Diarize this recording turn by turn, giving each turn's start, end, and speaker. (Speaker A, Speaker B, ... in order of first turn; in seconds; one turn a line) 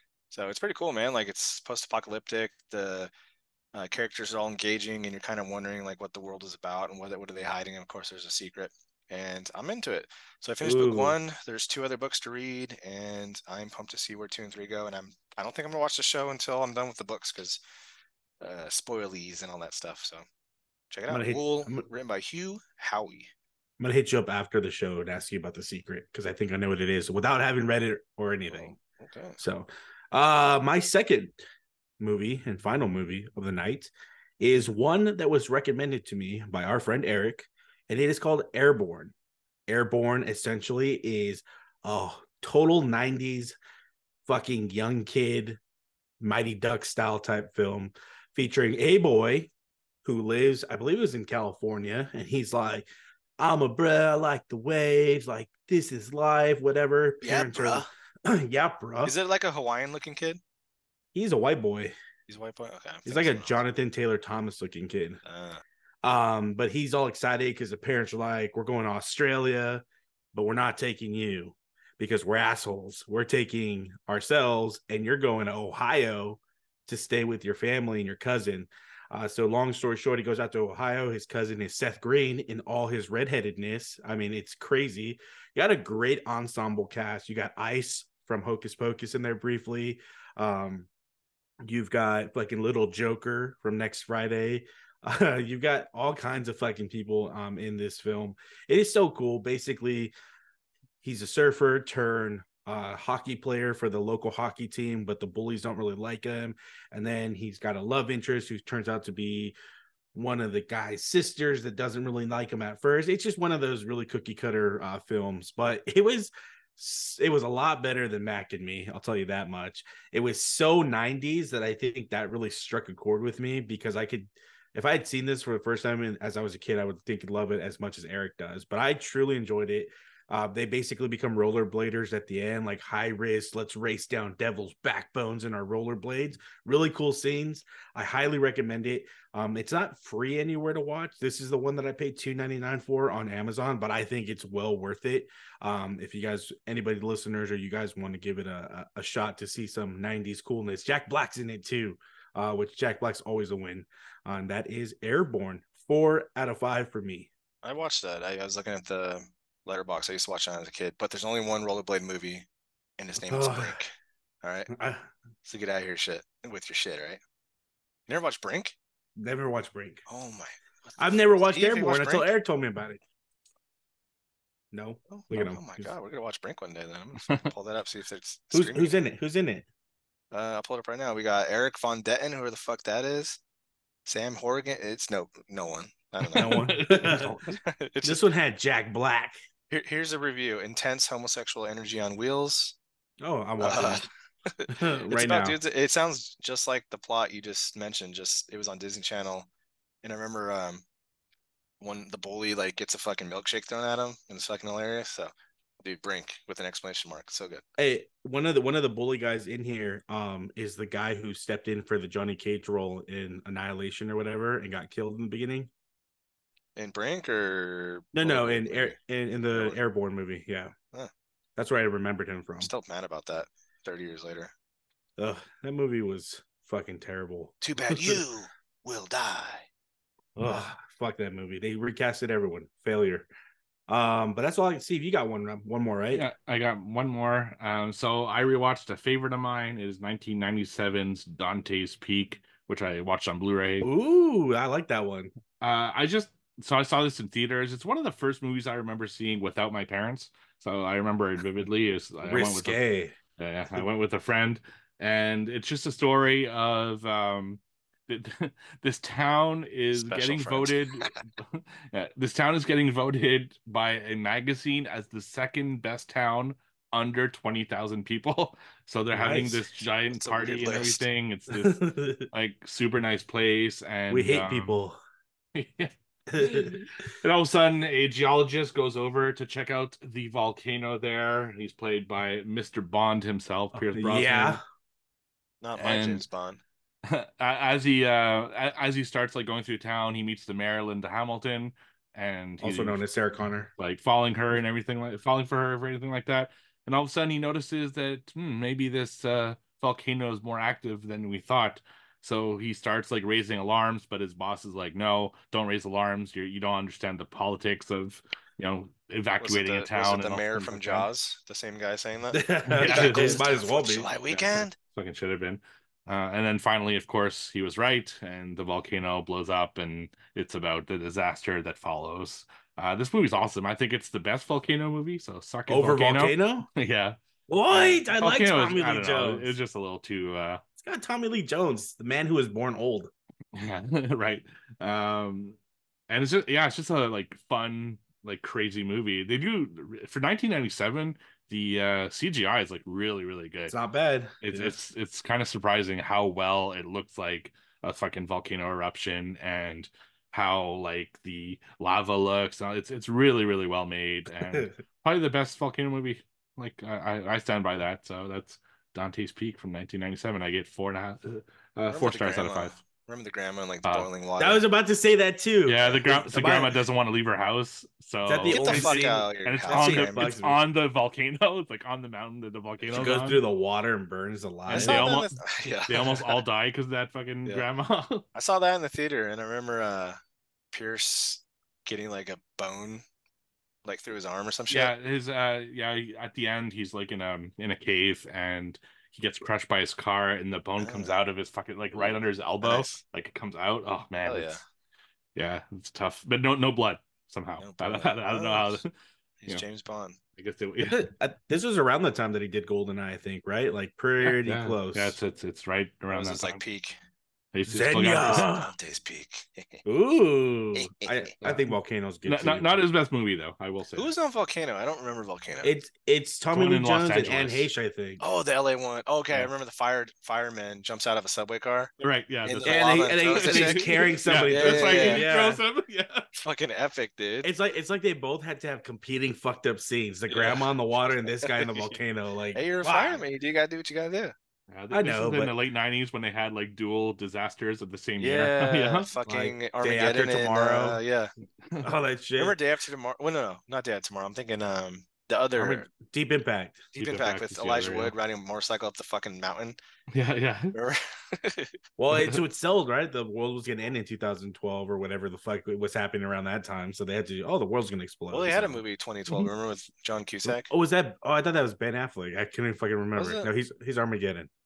Speaker A: 0.3-3.1
Speaker A: 3.7-17.6
Speaker B: 10.6-11.2
Speaker A: 18.4-20.2
Speaker A: 20.9-23.3
Speaker B: 21.1-21.9
Speaker B: 23.8-28.7
Speaker A: 28.5-29.4
Speaker B: 29.4-31.4
Speaker B: 32.0-39.1
Speaker B: 39.7-43.5
Speaker B: 44.2-45.6
Speaker B: 46.2-49.5
Speaker B: 50.0-59.1
Speaker A: 57.2-57.9
Speaker A: 59.0-60.4
Speaker B: 61.1-61.9
Speaker A: 62.3-63.6
Speaker B: 63.0-65.2
Speaker A: 65.2-65.6
Speaker B: 66.0-90.9
Speaker B: 91.6-100.1
Speaker B: 101.0-109.5
Speaker B: 110.1-157.3
Speaker A: 157.6-162.4
Speaker A: 163.0-164.7
Speaker B: 163.2-163.8
Speaker B: 164.7-165.1
Speaker A: 165.4-167.2
Speaker A: 168.1-168.8
Speaker B: 169.2-170.0
Speaker A: 170.1-172.3
Speaker B: 171.0-173.0
Speaker B: 174.7-175.9
Speaker A: 175.1-179.0
Speaker B: 178.5-179.7
Speaker A: 180.3-183.4
Speaker A: 184.1-186.7
Speaker C: 186.3-187.4
Speaker B: 186.3-187.4
Speaker A: 187.2-188.2
Speaker B: 188.0-189.3
Speaker A: 189.7-192.8
Speaker B: 193.2-194.1
Speaker A: 193.6-199.5
Speaker B: 194.7-195.6
Speaker A: 200.0-200.8
Speaker A: 201.8-205.3
Speaker A: 205.8-207.6
Speaker B: 207.8-215.7
Speaker A: 216.8-219.0
Speaker B: 218.1-220.7
Speaker A: 219.5-219.8
Speaker B: 221.6-222.7
Speaker A: 222.6-224.5
Speaker B: 225.2-228.2
Speaker A: 227.6-229.7
Speaker B: 230.4-233.3
Speaker B: 233.9-236.2
Speaker C: 236.1-243.9
Speaker B: 243.8-245.3
Speaker C: 245.6-252.8
Speaker B: 252.2-253.1
Speaker C: 253.4-274.8
Speaker A: 259.9-261.1
Speaker B: 269.1-269.6
Speaker A: 270.1-271.0
Speaker B: 271.5-272.2
Speaker B: 274.1-275.0
Speaker C: 275.5-284.6
Speaker B: 276.3-276.8
Speaker B: 283.8-284.6
Speaker A: 285.6-286.6
Speaker C: 285.8-286.2
Speaker C: 287.1-293.0
Speaker B: 292.6-293.7
Speaker C: 293.8-311.1
Speaker A: 309.4-314.8
Speaker B: 312.3-314.1
Speaker C: 312.7-313.4
Speaker C: 314.3-327.1
Speaker B: 325.7-326.7
Speaker B: 327.5-329.5
Speaker C: 327.7-330.6
Speaker B: 330.8-333.1
Speaker C: 333.5-335.6
Speaker C: 336.1-343.8
Speaker B: 343.7-344.7
Speaker C: 344.4-362.8
Speaker A: 361.9-364.6
Speaker B: 364.4-366.8
Speaker C: 365.6-373.4
Speaker B: 368.2-370.6
Speaker A: 368.5-370.3
Speaker B: 372.9-375.1
Speaker C: 374.7-378.2
Speaker A: 374.7-376.4
Speaker A: 378.3-380.2
Speaker A: 380.7-383.0
Speaker A: 383.8-384.9
Speaker C: 384.7-394.6
Speaker A: 390.8-391.2
Speaker A: 391.9-393.0
Speaker A: 394.2-394.6
Speaker C: 395.3-398.9
Speaker A: 397.6-398.8
Speaker A: 399.4-400.2
Speaker C: 400.4-401.1
Speaker B: 400.8-405.2
Speaker C: 404.2-406.6
Speaker A: 406.1-407.0
Speaker C: 407.5-408.5
Speaker B: 407.7-408.7
Speaker A: 408.2-409.8
Speaker B: 409.9-412.9
Speaker A: 410.8-411.3
Speaker C: 411.4-411.7
Speaker C: 412.2-414.1
Speaker A: 413.9-415.7
Speaker B: 415.6-418.2
Speaker C: 416.5-417.7
Speaker A: 418.2-425.3
Speaker C: 422.0-426.3
Speaker B: 422.6-425.6
Speaker A: 426.4-427.5
Speaker B: 427.4-433.2
Speaker A: 430.3-430.7
Speaker A: 431.3-431.9
Speaker A: 432.5-434.3
Speaker C: 434.7-439.1
Speaker B: 434.9-435.5
Speaker A: 438.2-441.3
Speaker B: 439.3-441.0
Speaker B: 441.8-442.6
Speaker A: 442.4-445.9
Speaker B: 445.6-446.9
Speaker A: 446.9-449.8
Speaker C: 446.9-448.1
Speaker C: 450.1-450.8
Speaker A: 450.7-451.7
Speaker B: 452.0-458.8
Speaker C: 452.1-452.4
Speaker A: 458.3-460.7
Speaker B: 460.5-464.5
Speaker A: 463.1-463.5